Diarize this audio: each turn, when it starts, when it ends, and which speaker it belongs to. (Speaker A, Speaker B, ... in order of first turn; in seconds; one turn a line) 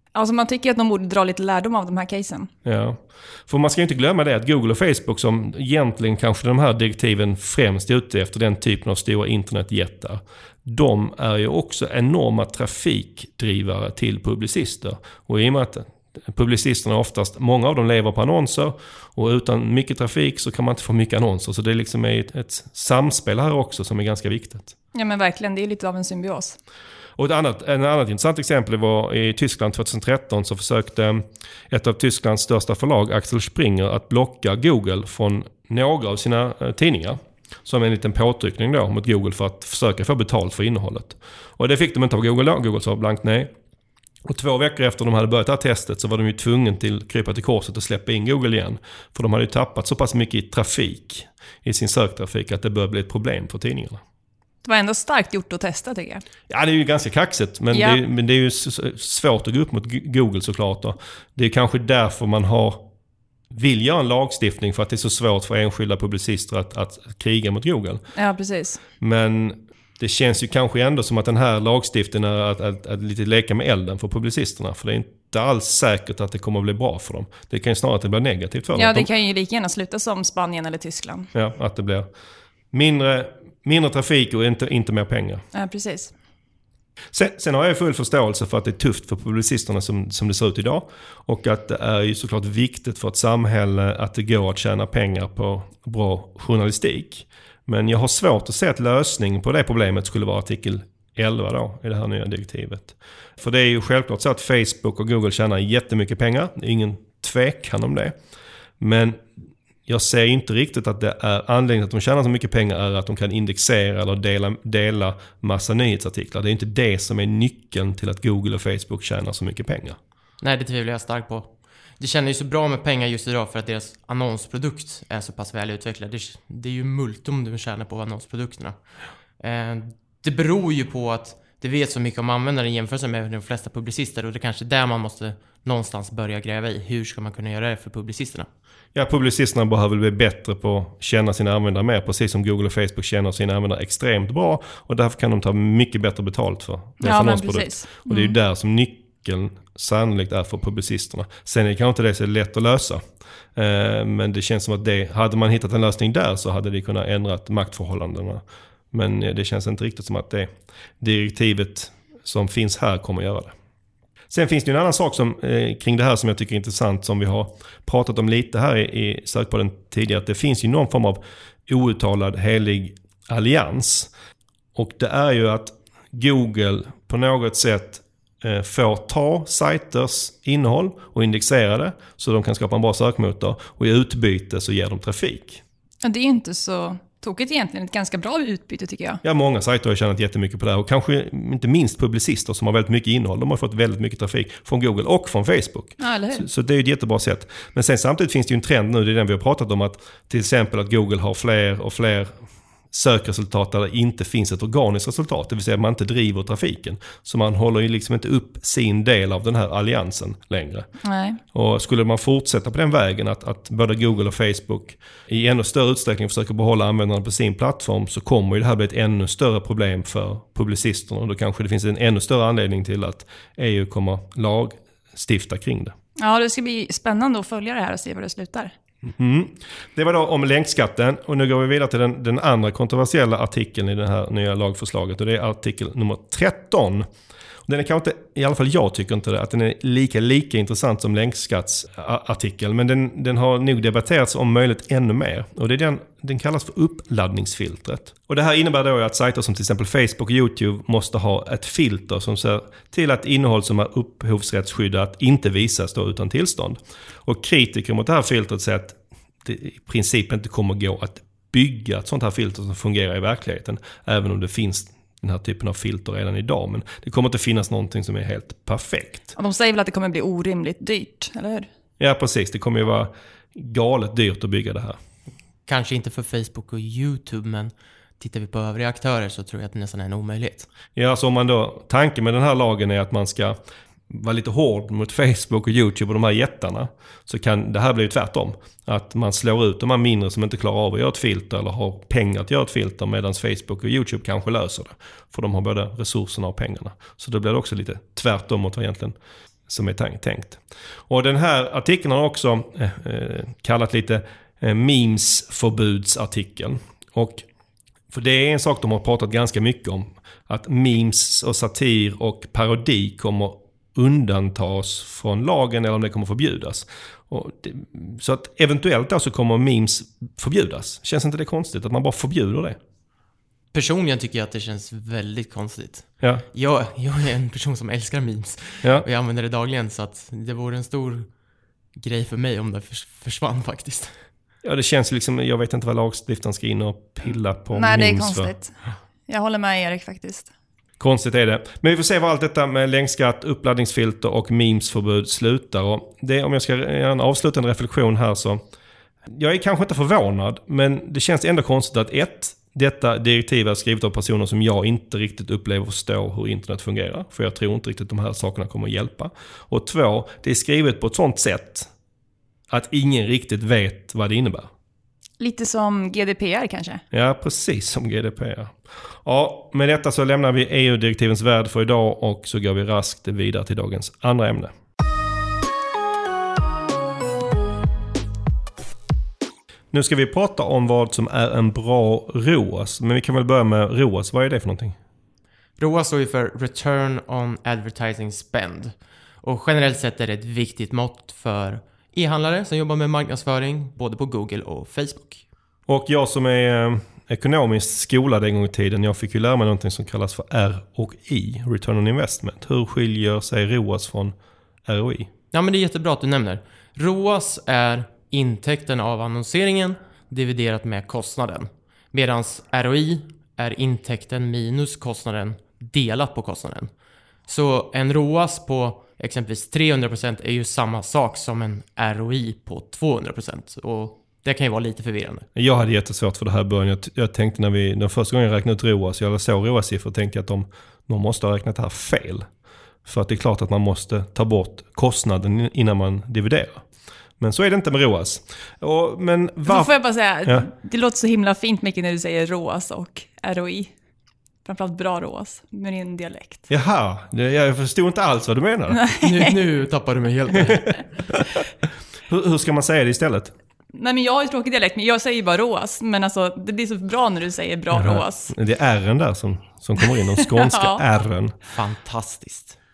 Speaker A: 0.1-2.5
Speaker B: 2.6-24.7
Speaker A: 24.9-26.6
Speaker B: 27.2-43.5
Speaker B: 44.2-54.0
Speaker A: 54.6-56.2
Speaker B: 56.5-62.8
Speaker A: 57.7-58.0
Speaker B: 63.5-68.0
Speaker A: 68.1-68.8
Speaker B: 69.0-79.1
Speaker A: 78.7-81.3
Speaker B: 81.3-82.1
Speaker B: 82.7-85.4
Speaker A: 85.5-86.1
Speaker B: 87.1-108.1
Speaker B: 108.8-109.3
Speaker B: 109.9-120.0
Speaker C: 120.4-128.8
Speaker C: 129.4-138.5
Speaker B: 138.9-153.0
Speaker A: 147.0-148.4
Speaker B: 153.5-163.5
Speaker B: 164.3-174.1
Speaker B: 174.8-185.6
Speaker A: 186.0-189.2
Speaker B: 189.2-202.3
Speaker A: 196.0-196.4
Speaker B: 202.9-210.9
Speaker A: 211.0-211.4
Speaker B: 211.5-225.9
Speaker A: 226.2-228.7
Speaker B: 229.2-237.1
Speaker B: 237.7-269.3
Speaker A: 269.4-271.7
Speaker B: 272.0-275.0
Speaker C: 275.7-280.7
Speaker B: 280.9-283.6
Speaker B: 284.1-299.1
Speaker B: 299.7-307.4
Speaker B: 308.1-322.8
Speaker C: 323.7-331.3
Speaker C: 331.9-334.1
Speaker B: 334.6-338.5
Speaker A: 337.7-338.8
Speaker A: 339.3-340.5
Speaker B: 341.0-348.6
Speaker B: 349.3-361.9
Speaker B: 362.7-364.7
Speaker A: 365.4-367.0
Speaker B: 367.1-374.7
Speaker B: 379.9-384.9
Speaker C: 385.8-395.4
Speaker B: 395.9-404.3
Speaker B: 404.9-405.3
Speaker C: 405.5-416.9
Speaker C: 417.5-425.4
Speaker B: 425.5-432.5
Speaker B: 433.0-436.8
Speaker B: 437.4-439.9
Speaker A: 439.6-443.9
Speaker A: 444.6-446.6
Speaker B: 446.7-449.0
Speaker A: 448.9-449.5
Speaker C: 449.2-451.0
Speaker B: 452.3-453.5
Speaker A: 453.9-458.5
Speaker B: 457.9-461.5
Speaker A: 460.0-461.0
Speaker C: 461.7-462.8